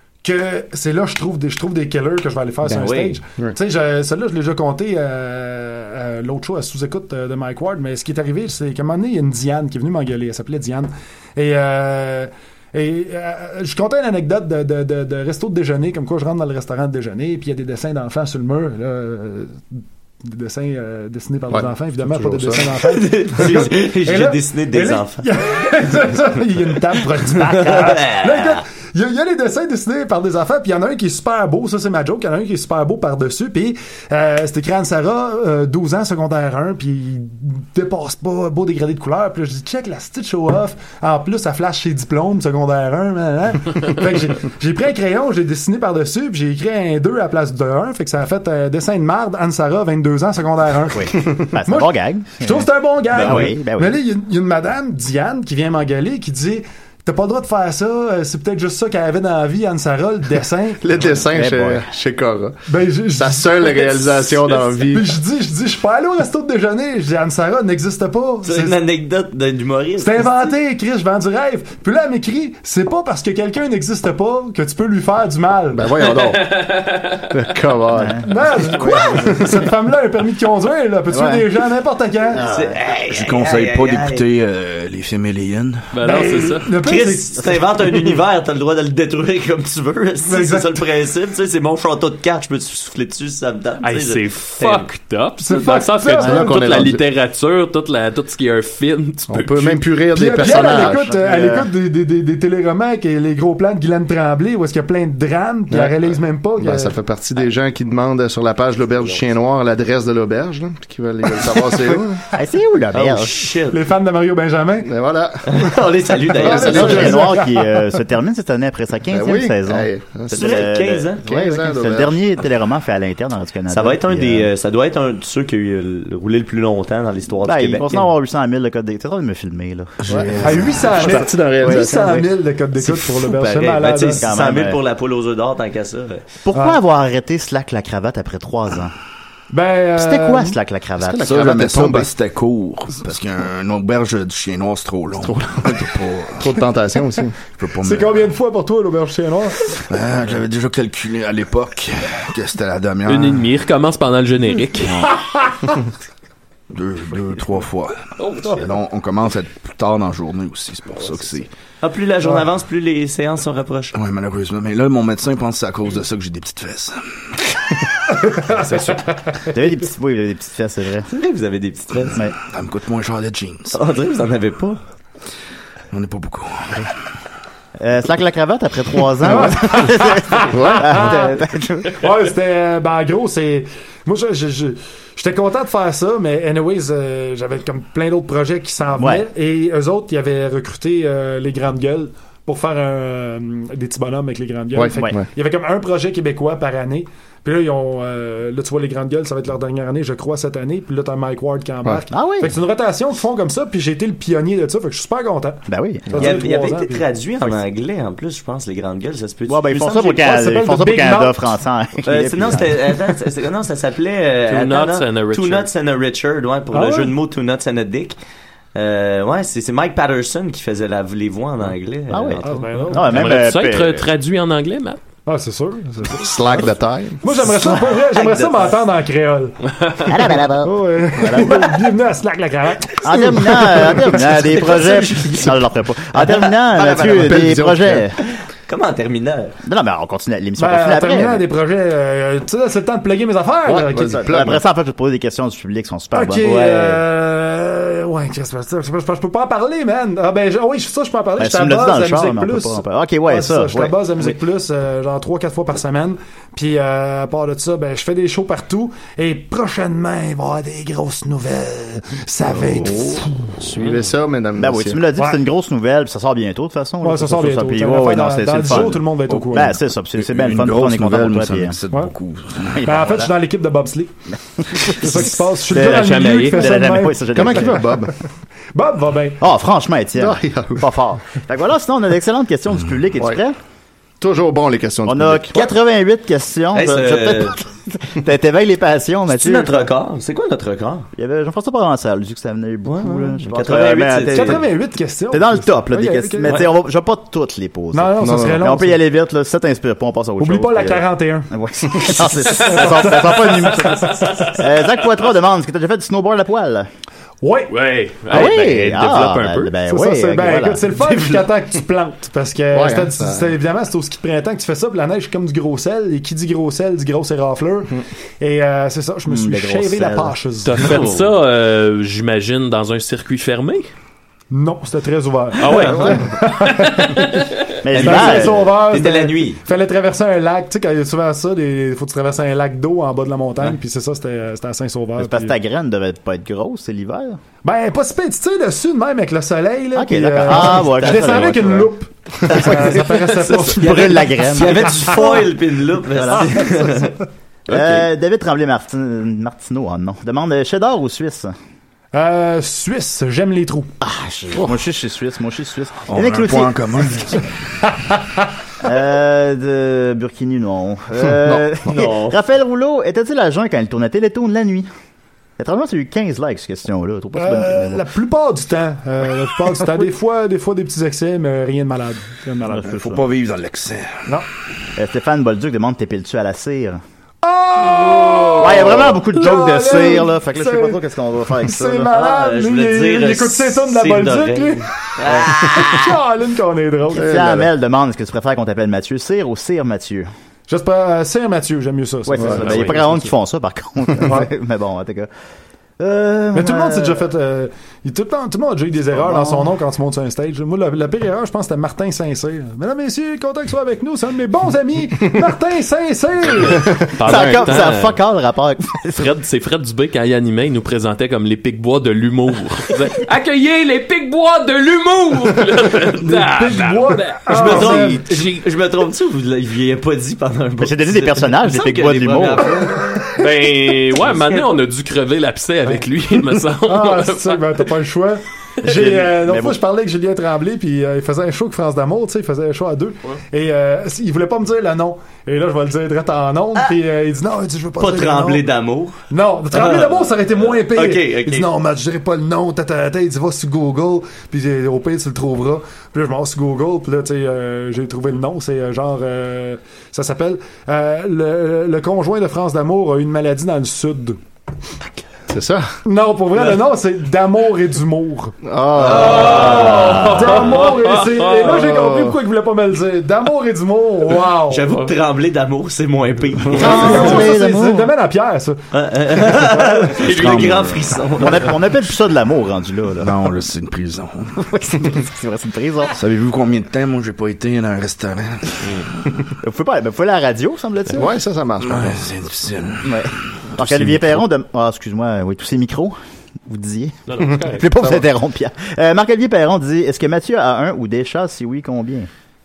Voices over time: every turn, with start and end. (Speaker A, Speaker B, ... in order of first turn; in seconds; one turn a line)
Speaker A: 0.2-60.9
Speaker B: 2.7-3.2
Speaker C: 21.5-22.7
Speaker B: 22.9-25.2
Speaker B: 27.4-28.6
Speaker D: 50.9-54.0
Speaker B: 53.2-53.5
Speaker C: 60.8-62.6
Speaker D: 61.2-61.9
Speaker A: 62.7-64.0
Speaker C: 63.1-65.2
Speaker A: 64.9-68.8
Speaker B: 68.4-70.5
Speaker A: 70.0-75.8
Speaker C: 75.7-76.5
Speaker E: 76.0-77.4
Speaker C: 77.3-78.2
Speaker D: 77.9-79.4
Speaker A: 78.2-82.5
Speaker D: 81.1-81.5
Speaker D: 82.3-82.8
Speaker B: 82.4-84.2
Speaker F: 83.1-86.0
Speaker E: 85.9-86.7
Speaker A: 86.0-87.9
Speaker B: 86.8-94.9
Speaker A: 90.2-90.8
Speaker E: 93.8-99.9
Speaker A: 95.4-96.7
Speaker C: 96.2-97.0
Speaker C: 99.3-101.1
Speaker A: 100.1-107.0
Speaker D: 100.4-101.7
Speaker C: 105.7-112.2
Speaker D: 112.3-113.5
Speaker B: 112.9-113.8
Speaker A: 113.7-114.9
Speaker C: 114.8-117.3
Speaker B: 115.5-117.2
Speaker A: 116.4-117.8
Speaker D: 116.5-124.5
Speaker C: 119.1-120.7
Speaker B: 120.3-121.2
Speaker C: 121.2-122.2
Speaker B: 123.7-128.1
Speaker D: 127.5-132.2
Speaker F: 130.0-130.6
Speaker C: 130.1-132.3
Speaker A: 130.4-134.3
Speaker B: 133.3-136.2
Speaker D: 134.2-134.8
Speaker D: 136.4-138.9
Speaker A: 139.5-140.6
Speaker D: 140.0-141.7
Speaker C: 141.0-142.1
Speaker F: 141.2-146.6
Speaker C: 145.2-147.4
Speaker F: 147.6-148.3
Speaker A: 147.8-149.8
Speaker F: 149.7-153.5
Speaker E: 153.1-155.1
Speaker F: 154.8-155.1
Speaker A: 155.1-155.7
Speaker F: 156.7-161.5
Speaker E: 158.2-158.6
Speaker B: 161.8-163.9
Speaker F: 163.9-167.0
Speaker A: 168.3-169.5
Speaker D: 169.5-171.1
Speaker B: 171.1-172.2
Speaker F: 172.4-173.8
Speaker B: 173.7-174.8
Speaker F: 175.9-176.9
Speaker D: 177.8-182.1
Speaker A: 179.2-181.4
Speaker C: 179.3-179.8
Speaker C: 180.5-181.1
Speaker A: 181.9-207.6
Speaker D: 189.0-189.3
Speaker C: 194.7-195.3
Speaker D: 202.1-202.5
Speaker D: 205.7-206.3
Speaker B: 206.1-210.2
Speaker D: 209.5-212.8
Speaker A: 210.1-211.4
Speaker B: 212.1-218.2
Speaker E: 214.5-215.7
Speaker A: 216.7-217.2
Speaker B: 218.7-222.8
Speaker D: 222.1-224.1
Speaker A: 222.4-223.2
Speaker E: 223.1-225.0
Speaker A: 225.3-226.6
Speaker C: 226.1-227.3
Speaker A: 227.2-229.6
Speaker B: 227.9-228.7
Speaker D: 230.1-231.6
Speaker A: 230.6-234.3
Speaker D: 233.0-238.2
Speaker B: 234.4-235.5
Speaker B: 236.1-237.5
Speaker C: 236.9-238.1
Speaker B: 238.7-239.5
Speaker D: 239.6-241.4
Speaker A: 240.6-244.3
Speaker C: 243.7-244.6
Speaker D: 244.1-247.0
Speaker A: 246.1-263.6
Speaker D: 251.4-254.4
Speaker C: 262.6-265.0
Speaker D: 264.6-271.8
Speaker A: 267.0-269.8
Speaker F: 270.2-272.8
Speaker D: 272.6-273.3
Speaker A: 272.8-274.1
Speaker D: 274.6-277.9
Speaker A: 274.8-277.6
Speaker E: 275.7-276.7
Speaker C: 277.3-278.1
Speaker A: 278.7-279.4
Speaker D: 279.4-283.6
Speaker C: 280.1-280.9
Speaker C: 284.2-285.5
Speaker D: 285.1-289.9
Speaker B: 286.7-287.6
Speaker B: 289.3-291.1
Speaker D: 291.1-294.7
Speaker B: 292.8-294.6
Speaker A: 294.2-296.6
Speaker D: 295.3-306.9
Speaker A: 297.9-299.0
Speaker C: 298.2-298.6
Speaker A: 300.4-301.5
Speaker E: 302.4-305.0
Speaker A: 302.6-304.5
Speaker A: 307.4-307.8
Speaker E: 307.7-309.7
Speaker D: 308.3-311.3
Speaker A: 309.8-320.8
Speaker C: 312.7-313.5
Speaker D: 319.3-320.3
Speaker E: 320.6-323.9
Speaker B: 320.8-321.3
Speaker A: 324.5-335.5
Speaker E: 325.6-327.6
Speaker D: 327.8-328.7
Speaker B: 327.9-329.6
Speaker D: 335.2-337.4
Speaker A: 337.6-345.5
Speaker D: 339.9-341.9
Speaker B: 340.8-341.6
Speaker B: 342.5-347.2
Speaker D: 342.5-345.4
Speaker D: 346.1-346.8
Speaker A: 346.4-346.9
Speaker D: 347.7-351.5
Speaker B: 347.7-348.1
Speaker A: 352.1-353.9
Speaker D: 354.0-357.4
Speaker F: 356.1-357.5
Speaker A: 357.9-358.2
Speaker D: 358.8-364.9
Speaker C: 361.2-361.9
Speaker B: 361.9-362.4
Speaker D: 365.6-368.1
Speaker A: 367.4-373.0
Speaker D: 372.7-373.2
Speaker F: 372.9-374.3
Speaker D: 374.9-377.0
Speaker A: 377.4-381.0
Speaker D: 378.6-382.1
Speaker A: 381.6-387.3
Speaker B: 382.1-386.0
Speaker D: 385.3-386.0
Speaker D: 387.1-390.3
Speaker C: 387.1-387.7
Speaker A: 390.7-393.1
Speaker D: 392.3-395.3
Speaker C: 392.4-392.8
Speaker E: 392.6-393.1
Speaker A: 394.2-394.5
Speaker D: 396.0-397.2
Speaker A: 396.5-407.1
Speaker D: 399.1-399.7
Speaker E: 407.1-408.2
Speaker D: 407.2-409.3
Speaker E: 409.0-418.0
Speaker A: 416.2-418.3
Speaker B: 417.5-423.2
Speaker D: 420.8-423.0
Speaker A: 423.2-423.4
Speaker E: 423.3-427.8
Speaker A: 426.8-438.7
Speaker D: 428.8-429.8
Speaker B: 438.0-439.2
Speaker A: 439.3-454.4
Speaker B: 439.7-441.7
Speaker C: 455.5-455.9
Speaker A: 456.1-458.6
Speaker C: 458.6-460.1
Speaker D: 459.1-460.5
Speaker E: 459.1-461.6
Speaker B: 459.2-460.3
Speaker A: 459.5-464.9
Speaker C: 461.6-462.4
Speaker B: 464.7-467.3
Speaker A: 466.8-470.3
Speaker D: 466.8-468.1
Speaker B: 468.9-471.7
Speaker F: 470.2-471.2
Speaker D: 471.4-473.4
Speaker F: 473.2-474.6
Speaker D: 474.6-476.2
Speaker F: 476.1-479.1
Speaker D: 479.6-481.3
Speaker C: 481.1-482.3
Speaker F: 481.8-484.4
Speaker D: 483.0-492.3
Speaker E: 487.3-487.9
Speaker C: 487.4-488.1